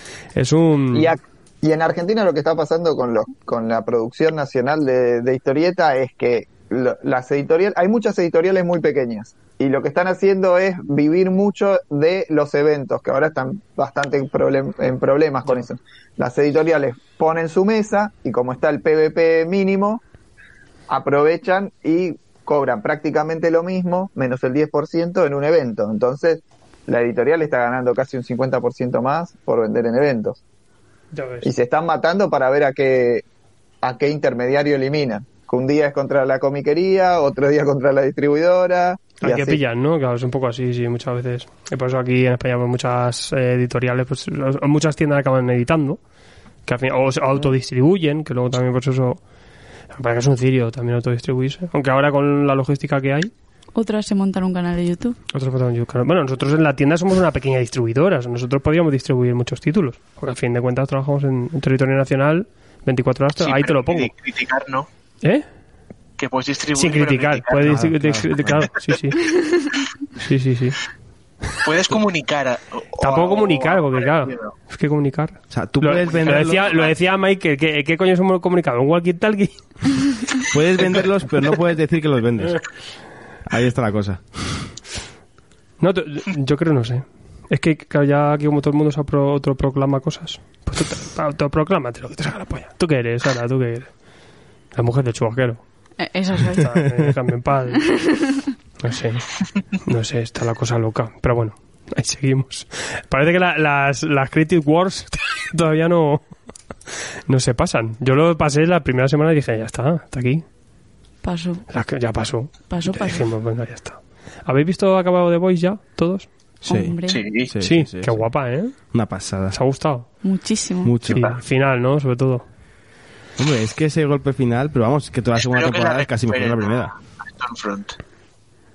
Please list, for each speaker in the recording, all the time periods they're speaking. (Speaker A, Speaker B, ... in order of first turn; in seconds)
Speaker A: 0.3-1.1, 31.1-31.5, 39.2-46.0, 46.6-49.2, 49.9-53.3, 55.3-64.1, 66.7-69.3, 70.1-70.8, 73.0-80.0, 85.8-93.9, 94.7-95.6, 96.5-98.2, 98.8-106.3, 107.3-110.4, 111.7-116.3, 117.6-118.7, 119.5-120.1, 121.1-122.4
Speaker B: 0.9-20.0, 20.9-30.4, 31.4-33.2, 33.8-39.6
Speaker C: 53.7-55.2, 96.0-96.8, 97.8-98.4, 111.2-111.7, 112.7-113.3, 116.7-117.2, 120.2-121.0
Speaker D: 63.4-64.8, 66.2-67.6, 71.7-74.5, 76.2-76.9, 117.1-117.5, 125.4-127.9
Speaker E: 67.7-68.7, 75.5-76.6, 80.5-82.6, 83.5-84.7, 116.6-118.2, 118.9-119.6, 120.8-121.2, 123.4-126.9